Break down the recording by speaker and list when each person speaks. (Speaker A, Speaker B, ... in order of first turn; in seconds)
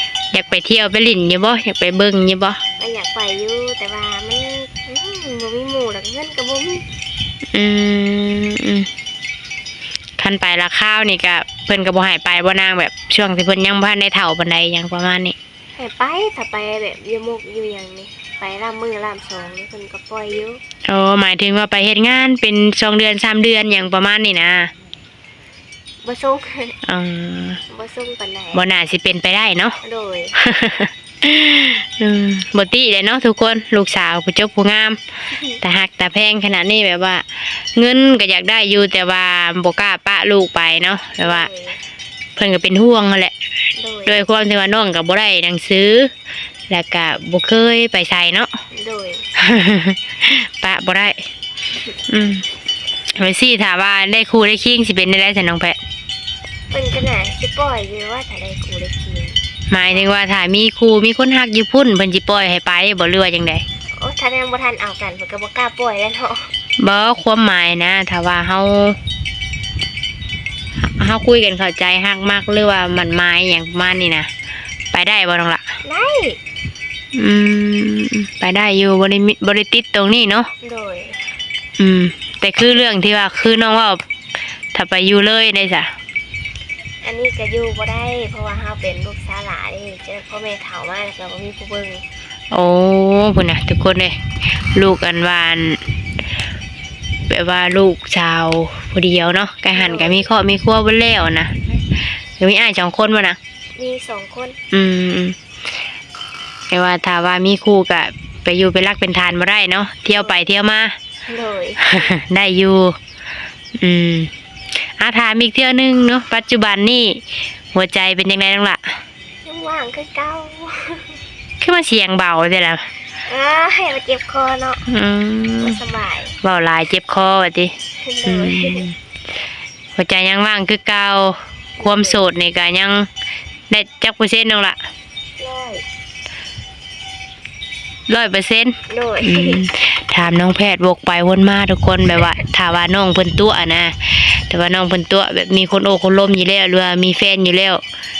Speaker A: 0.3-2.6, 7.5-8.9, 10.2-15.3, 20.9-24.7, 26.8-27.6, 28.5-29.8, 30.4-35.0, 35.6-41.5, 42.4-43.3, 44.1-46.1, 46.7-48.5, 49.4-51.2, 52.1-52.5, 53.1-55.8, 59.7-63.6, 66.8-69.0, 70.8-74.3, 74.9-75.6, 77.1-80.5, 81.8-84.0, 84.7-85.9, 92.5-95.8, 97.3-103.4, 104.7-105.4, 106.7-111.0, 111.8-113.0, 113.8-114.3, 115.0-117.2, 117.7-118.8, 121.6-122.9, 124.9-125.8, 126.4-129.0, 129.9-133.1, 133.7-134.8, 138.1-147.8
Speaker B: 2.8-6.8, 15.8-20.6, 26.0-26.8, 27.7-28.6, 29.8-30.3, 35.3-35.6, 41.2-41.8, 43.8-44.2, 48.7-49.2, 56.7-60.1, 63.9-66.5, 75.8-76.4, 80.6-81.2, 87.0-92.0, 99.7-100.3, 103.8-104.6, 111.3-111.9, 119.4-121.2, 123.3-124.8, 125.6-126.3, 128.0-128.8, 131.8-132.2, 135.4-135.8, 138.9-139.6